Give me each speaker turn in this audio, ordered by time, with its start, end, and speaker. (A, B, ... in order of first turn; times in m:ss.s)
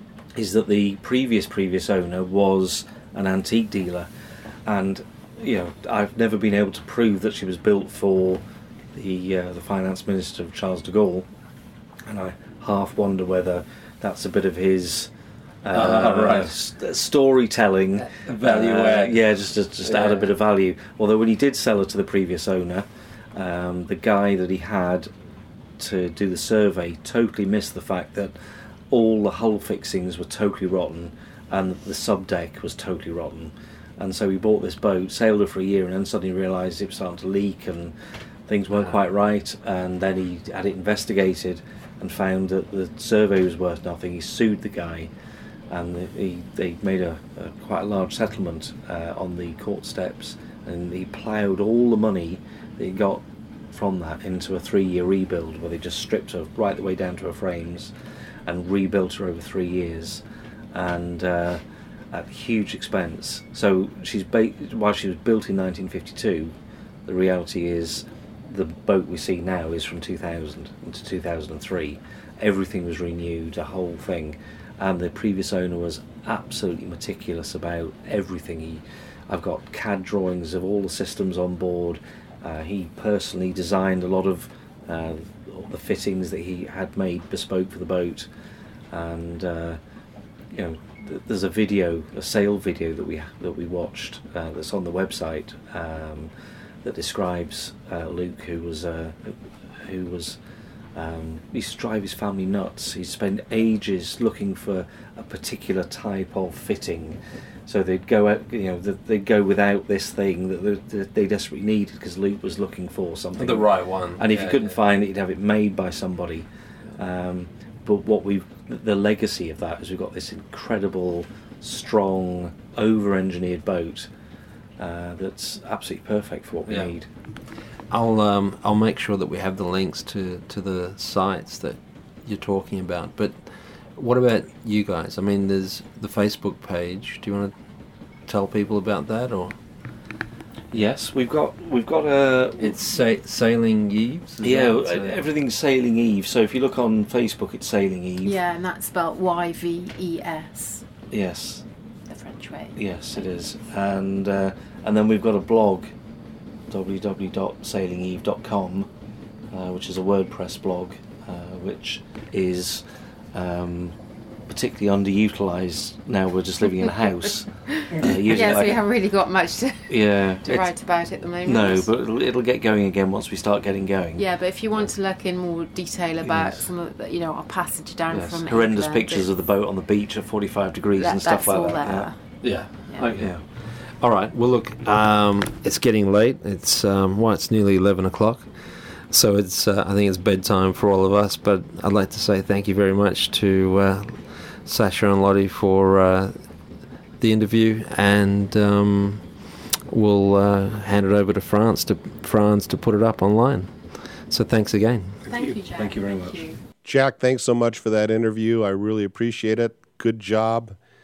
0:00.4-0:04.1 A
0:04.6-0:08.4 A
0:08.9-0:11.3 A
0:12.0-0:15.1 A
0:15.6-0:25.1 A
0:15.7-0:16.5 B
0:18.0-0:19.2 B
0:19.8-0:20.3 B
0:25.8-0:28.3 A
0:28.9-0:37.9 A
0:38.5-0:45.1 A
0:45.7-0:57.9 A
0:58.4-1:06.5 A
1:07.0-1:28.3 A
1:28.9-1:29.8 A
1:30.5-1:36.3 A
1:36.8-1:40.4 A
1:40.9-2:04.1 A
1:53.4-1:54.8 B
2:04.8-2:07.1 A
2:06.7-2:06.9 B
2:07.9-2:17.5 B
2:18.2-2:19.5 B
2:20.7-2:22.8 A
2:22.6-2:25.2 B
2:24.4-2:28.4 A
2:28.2-2:30.8 C
2:31.1-2:31.6 A
2:32.1-2:32.8 C
2:32.8-2:35.9 A
2:36.7-2:38.9 A
2:39.5-2:44.0 A
2:44.5-2:48.8 A
2:47.7-2:51.9 C
2:49.9-2:50.7 A
2:51.4-2:54.2 A
2:54.2-2:59.3 C
2:56.2-2:56.6 A
2:58.1-3:02.1 A
3:01.0-3:02.4 C
3:02.4-3:08.5 B
3:02.9-3:03.1 C
3:03.1-3:03.4 A
3:09.1-3:16.4 B
3:17.2-3:19.2 B
3:19.9-3:25.2 B
3:25.2-3:26.6 C
3:25.4-3:26.4 A
3:26.8-3:30.8 D